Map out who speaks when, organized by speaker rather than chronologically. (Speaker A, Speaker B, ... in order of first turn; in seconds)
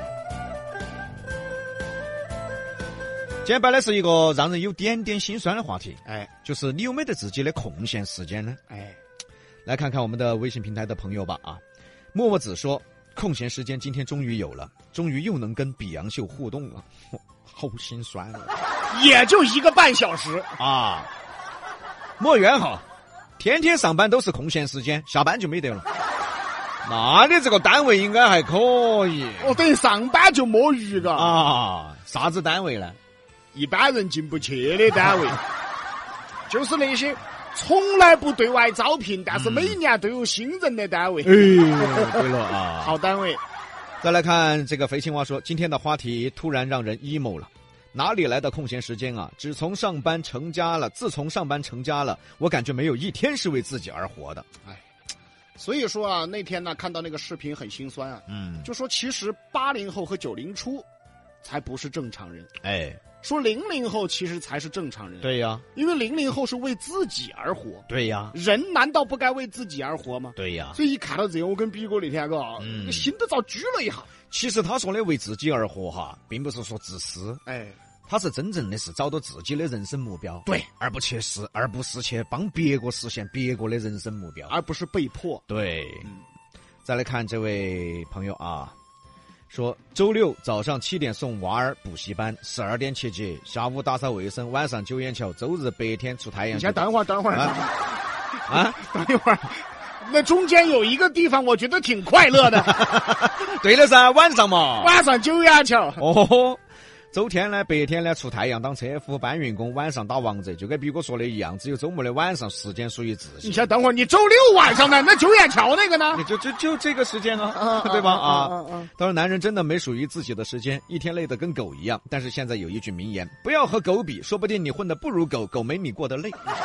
Speaker A: 3.4-8.6, 9.7-11.6, 12.1-18.5, 20.6-21.1, 22.2-22.9, 23.4-25.9, 26.9-29.6, 31.1-33.0, 39.3-39.8, 41.2-43.0, 44.0-54.5, 58.3-58.7, 62.6-63.0, 65.2-65.7, 67.9-68.3, 70.4-70.8, 72.6-73.1, 74.3-77.4, 78.1-84.5, 85.5-86.1, 86.8-88.8, 89.5-97.5, 98.5-98.8, 102.7-105.0, 106.0-106.6, 107.1-113.7, 116.1-126.5
Speaker B: 8.7-9.0, 18.9-20.6, 29.4-31.4, 33.5-35.4, 36.5-42.3, 42.8-43.4, 55.6-60.9, 61.4-62.5, 63.2-74.1, 77.5-77.8, 84.5-85.4, 96.5-102.9, 104.8-106.0, 113.4-116.2, 117.5-118.9